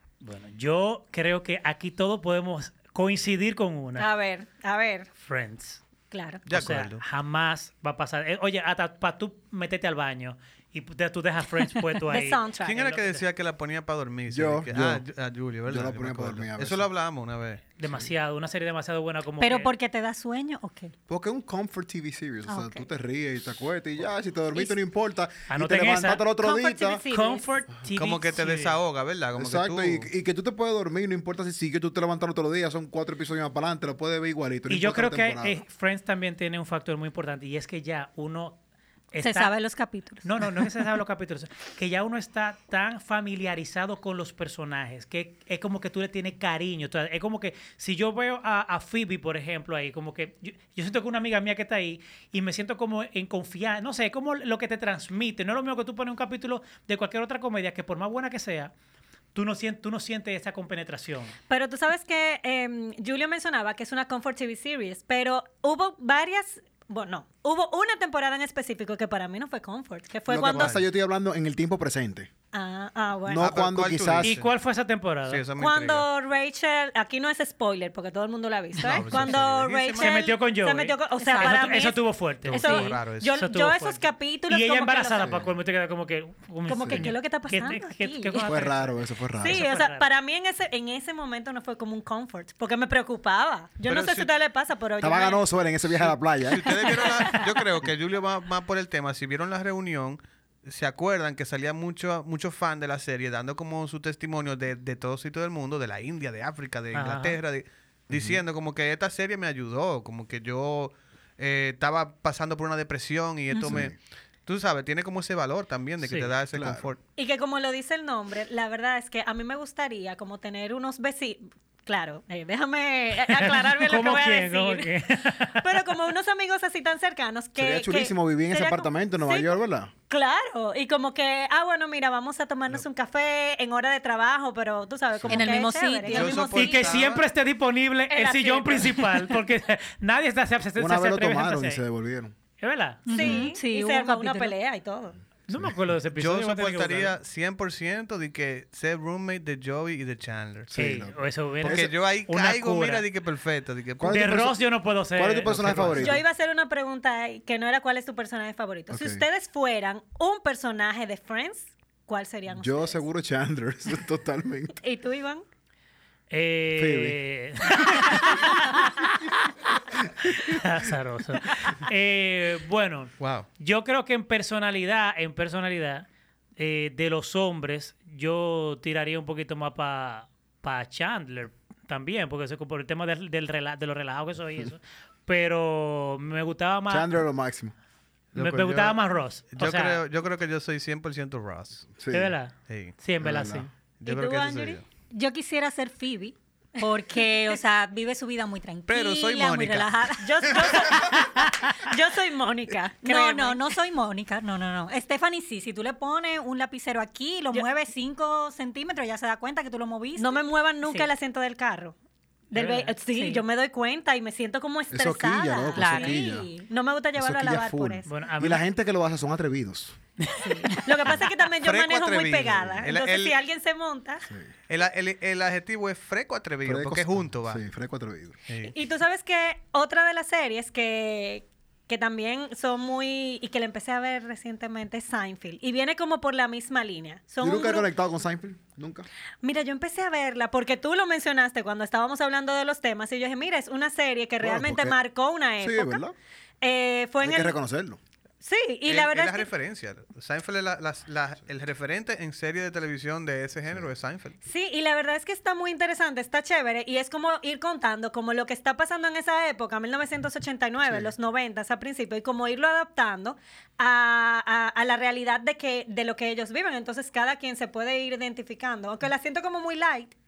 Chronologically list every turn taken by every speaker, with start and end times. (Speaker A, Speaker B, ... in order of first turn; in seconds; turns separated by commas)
Speaker A: 0.2-4.1, Speaker B: 4.0-5.1, Speaker A: 5.2-5.8, Speaker B: 6.1-6.4, Speaker C: 6.5-7.0, Speaker A: 6.5-12.4, Speaker B: 12.1-13.2, Speaker C: 12.6-17.6, Speaker D: 14.3-15.1, Speaker D: 15.7-16.9, Speaker A: 17.8-19.7, Speaker E: 19.4-20.9, Speaker D: 21.1-27.0, Speaker E: 22.5-22.8, Speaker A: 25.5-26.2, Speaker B: 26.4-27.5, Speaker A: 27.1-28.8, Speaker C: 27.9-30.1, Speaker D: 29.4-35.6, Speaker A: 34.7-38.6, Speaker A: 39.1-39.5, Speaker E: 39.2-40.8, Speaker A: 40.2-58.7, Speaker A: 59.3-61.3, Speaker B: 61.5-70.8, Speaker D: 70.3-72.3, Speaker C: 70.5-70.8, Speaker B: 72.5-73.5, Speaker D: 73.3-74.3, Speaker C: 73.3-74.5, Speaker A: 74.2-75.4, Speaker C: 75.2-76.1, Speaker B: 75.6-85.3, Speaker C: 78.8-80.2, Speaker A: 80.0-90.1, Speaker E: 81.2-81.9, Speaker C: 82.4-83.3, Speaker D: 85.2-85.5, Speaker B: 86.7-88.5, Speaker D: 88.5-89.6, Speaker B: 89.4-95.4, Speaker C: 93.8-94.3, Speaker D: 95.0-96.8, Speaker C: 96.0-113.9, Speaker B: 96.9-97.3, Speaker A: 106.9-107.4, Speaker D: 108.1-108.4, Speaker D: 113.6-114.0, Speaker C: 114.5-117.0, Speaker A: 116.0-116.3, Speaker D: 116.5-116.8, Speaker B: 117.2-124.9, Speaker A: 123.3-125.7, Speaker B: 125.5-137.0, Speaker D: 127.5-129.9, Speaker E: 135.3-136.5, Speaker C: 136.1-137.2, Speaker A: 136.5-141.8, Speaker B: 138.1-139.0, Speaker D: 140.8-142.3, Speaker A: 142.6-143.4, Speaker E: 143.1-144.5, Speaker B: 143.1-145.2, Speaker A: 145.5-147.1, Speaker C: 146.2-150.7, Speaker D: 150.7-151.9, Speaker A: 150.7-153.0, Speaker C: 151.6-154.2, Speaker D: 154.0-156.2, Speaker A: 154.1-156.2, Speaker B: 156.0-163.0, Speaker D: 158.9-159.2, Speaker D: 162.5-164.8, Speaker B: 164.8-165.4, Speaker A: 166.3-169.5, Speaker D: 166.7-167.2, Speaker A: 170.2-176.1, Speaker C: 173.2-173.5, Speaker A: 176.6-187.2, Speaker D: 186.9-187.7, Speaker C: 188.3-191.9, Speaker A: 188.3-190.0, Speaker D: 191.9-192.3, Speaker A: 192.1-193.7, Speaker C: 192.7-192.9, Speaker D: 193.2-193.7, Speaker C: 194.0-194.8, Speaker B: 194.1-194.8, Speaker E: 195.1-200.3, Speaker C: 198.9-200.1, Speaker B: 200.2-203.6, Speaker E: 201.2-201.7, Speaker E: 203.0-211.1, Speaker B: 210.2-211.9, Speaker B: 212.5-218.1, Speaker A: 212.5-212.9, Speaker E: 213.1-213.4, Speaker D: 214.9-216.5, Speaker E: 215.7-216.2, Speaker D: 217.1-219.9, Speaker A: 218.1-218.7, Speaker A: 220.2-221.1, Speaker B: 220.4-224.2, Speaker C: 221.6-223.3, Speaker C: 224.7-227.6, Speaker D: 226.6-228.3, Speaker C: 228.5-228.7, Speaker B: 228.7-237.9, Speaker D: 237.4-239.1, Speaker B: 239.4-246.0, Speaker D: 244.4-245.0, Speaker D: 245.6-246.1, Speaker B: 246.6-247.6, Speaker D: 247.2-248.0, Speaker B: 248.4-249.5, Speaker C: 248.8-254.3, Speaker B: 254.4-270.1, Speaker D: 260.9-261.1